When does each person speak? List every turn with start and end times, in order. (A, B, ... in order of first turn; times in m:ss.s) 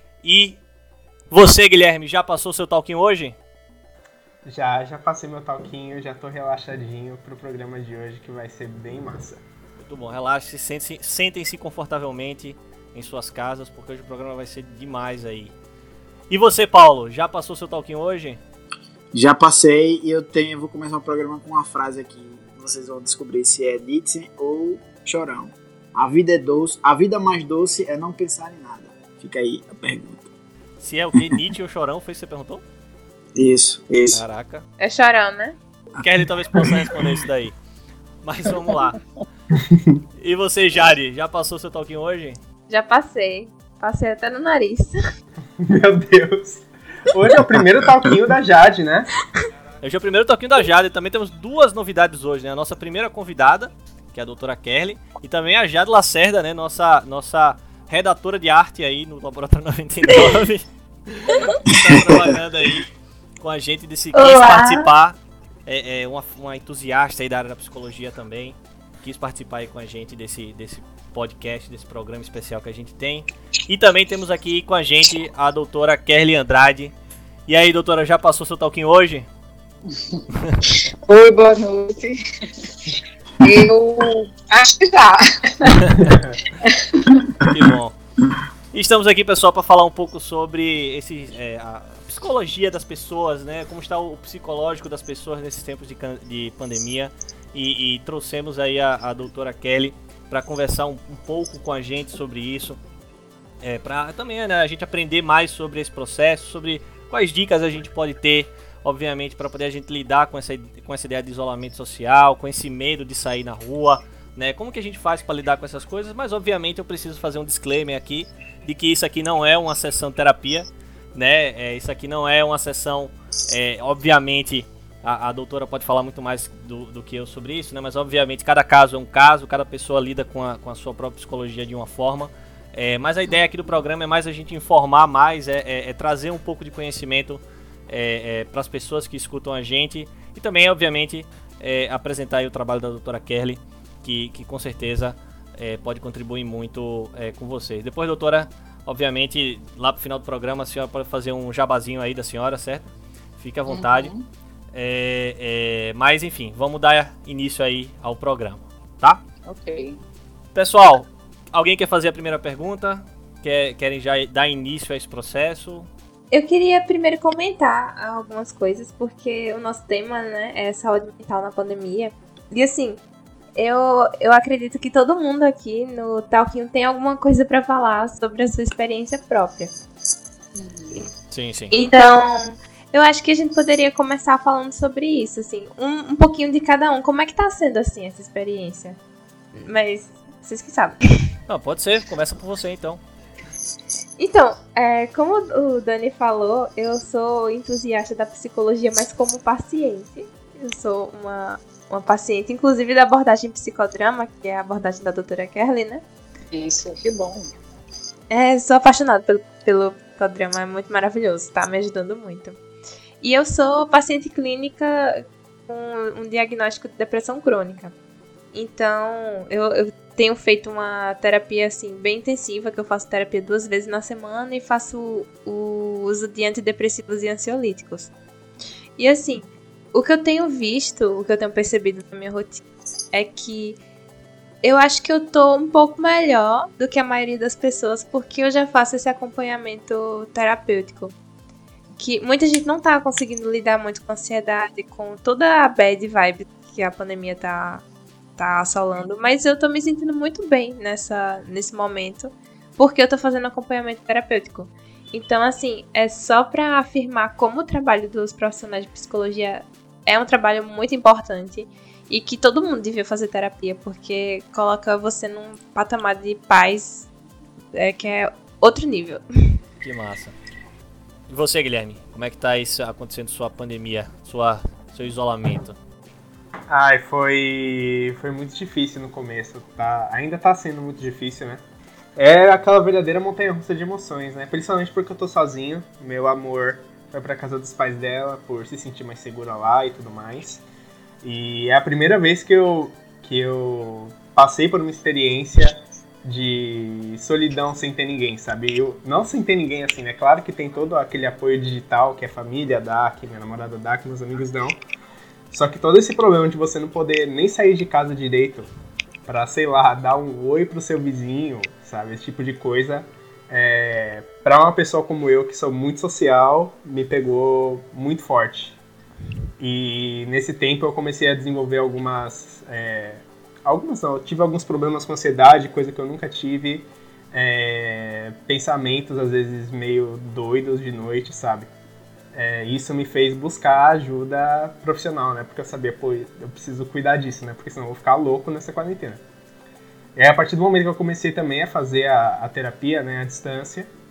0:00.2-0:00.6 A
0:01.3-0:03.4 A
0:04.4-0:09.4 B
0:09.8-0:15.5 A
0:16.3-0:18.4 A
0:19.1-0:30.3 C
0:30.8-0:32.6 A
0:33.4-0:34.2 C
0:34.1-0:34.6 A
0:34.8-0:35.6 D
0:36.0-0:37.6 A
0:36.5-0:37.1 C
0:38.2-0:39.0 A
0:39.6-0:40.0 B
0:40.2-0:42.4 A
0:42.7-0:45.0 D
0:45.6-0:49.1 B
0:49.8-1:02.9 A
1:01.7-1:02.4 C
1:03.4-1:16.9 A
1:04.1-1:04.9 D
1:17.5-1:19.3 A
1:19.9-1:20.2 E
1:20.3-1:20.6 A
1:21.0-1:22.7 E
1:23.4-1:25.8 E
1:25.8-1:26.0 A
1:26.1-1:26.3 B
1:26.6-1:27.2 E
1:27.4-1:28.0 A
1:27.4-1:27.7 C
1:28.7-1:42.8 A
1:43.6-2:34.1 A
2:33.7-2:34.2 E
2:34.7-2:39.2 A
2:39.4-2:40.0 E
2:40.5-2:45.9 A
2:46.3-2:53.0 D
2:53.6-2:59.7 D
3:00.5-3:01.0 E
3:01.3-3:01.8 A
3:01.7-3:09.0 D
3:09.5-3:11.0 D
3:11.5-3:13.0 A
3:14.2-3:26.0 D
3:26.5-3:27.5 E
3:28.3-3:32.6 D
3:33.2-3:37.9 D
3:38.5-3:48.1 D
3:49.0-3:52.6 D
3:53.1-3:53.8 D
3:54.6-4:01.1 D
4:02.0-4:07.8 D
4:08.4-4:27.0 D
4:27.7-4:29.6 D
4:29.8-4:30.3 A
4:31.3-4:35.8 A
4:36.7-4:41.6 B
4:42.2-4:50.6 B
4:51.2-5:04.8 B
5:05.5-5:08.7 B
5:09.2-5:18.8 B
5:19.6-5:31.7 B
5:32.3-5:39.2 B
5:40.2-5:43.9 B